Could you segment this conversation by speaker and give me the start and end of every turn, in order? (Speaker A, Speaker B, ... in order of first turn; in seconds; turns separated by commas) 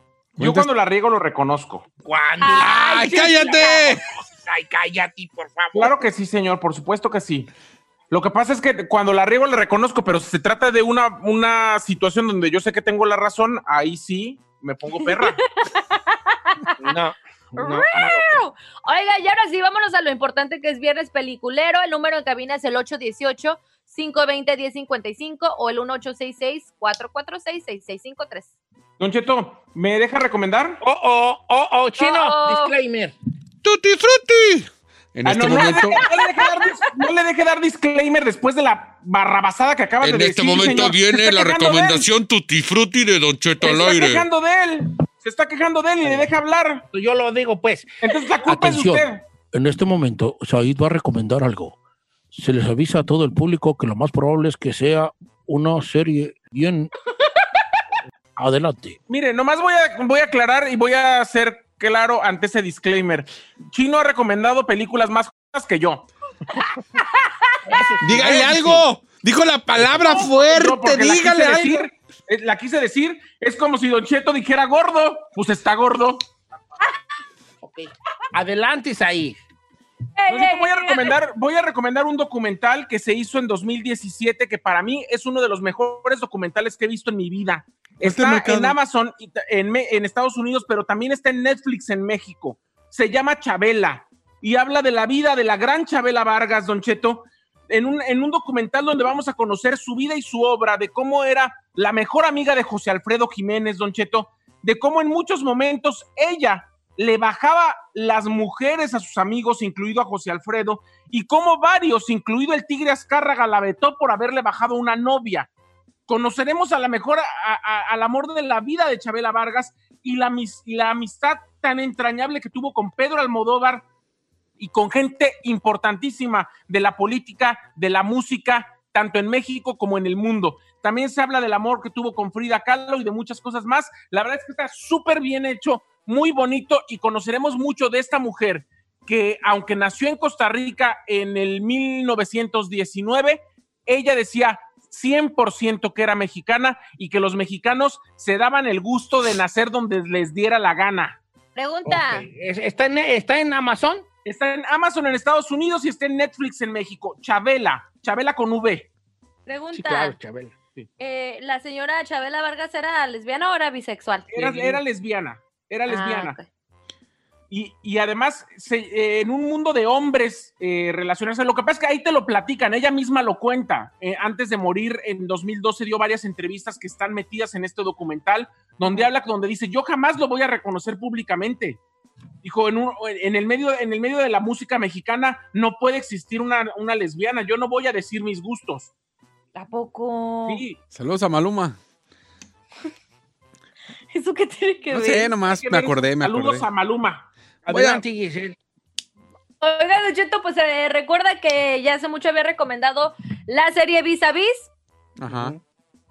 Speaker A: 0.4-1.9, Speaker B: 0.4-0.7, Speaker C: 2.0-5.9, Speaker D: 2.4-3.8, Speaker B: 2.6-4.0, Speaker A: 5.8-7.5, Speaker A: 8.1-15.4, Speaker D: 15.6-16.8, Speaker C: 16.8-18.4, Speaker D: 17.6-28.5, Speaker A: 29.0-30.8, Speaker C: 30.8-33.1, Speaker D: 32.0-32.7, Speaker B: 33.6-36.1, Speaker A: 35.3-42.1, Speaker D: 36.0-36.7, Speaker E: 40.0-44.2, Speaker A: 43.6-46.8, Speaker C: 46.0-46.3, Speaker C: 46.9-51.8, Speaker A: 48.0-49.2, Speaker C: 52.3-56.9, Speaker C: 58.4-59.0, Speaker A: 59.1-66.1, Speaker D: 66.6-67.6, Speaker C: 67.7-68.8, Speaker B: 68.0-71.9, Speaker C: 69.9-70.2, Speaker A: 69.9-76.2, Speaker C: 77.6-79.4, Speaker D: 80.2-81.2, Speaker A: 80.3-115.5, Speaker B: 88.0-88.8, Speaker A: 116.1-123.8, Speaker A: 124.6-151.2, Speaker D: 151.6-152.2, Speaker C: 151.9-154.1, Speaker A: 154.2-158.9, Speaker D: 159.5-160.2, Speaker C: 159.7-160.9, Speaker D: 161.0-164.8, Speaker A: 164.3-166.4, Speaker D: 165.9-166.5, Speaker A: 167.5-181.8, Speaker A: 182.4-188.9, Speaker D: 189.6-190.6, Speaker A: 190.5-190.8, Speaker B: 190.9-191.8, Speaker D: 194.1-195.3, Speaker B: 194.9-196.7, Speaker A: 195.5-197.3, Speaker B: 197.7-198.0, Speaker C: 197.7-198.6, Speaker D: 199.6-204.7, Speaker B: 205.2-205.6, Speaker C: 205.3-205.6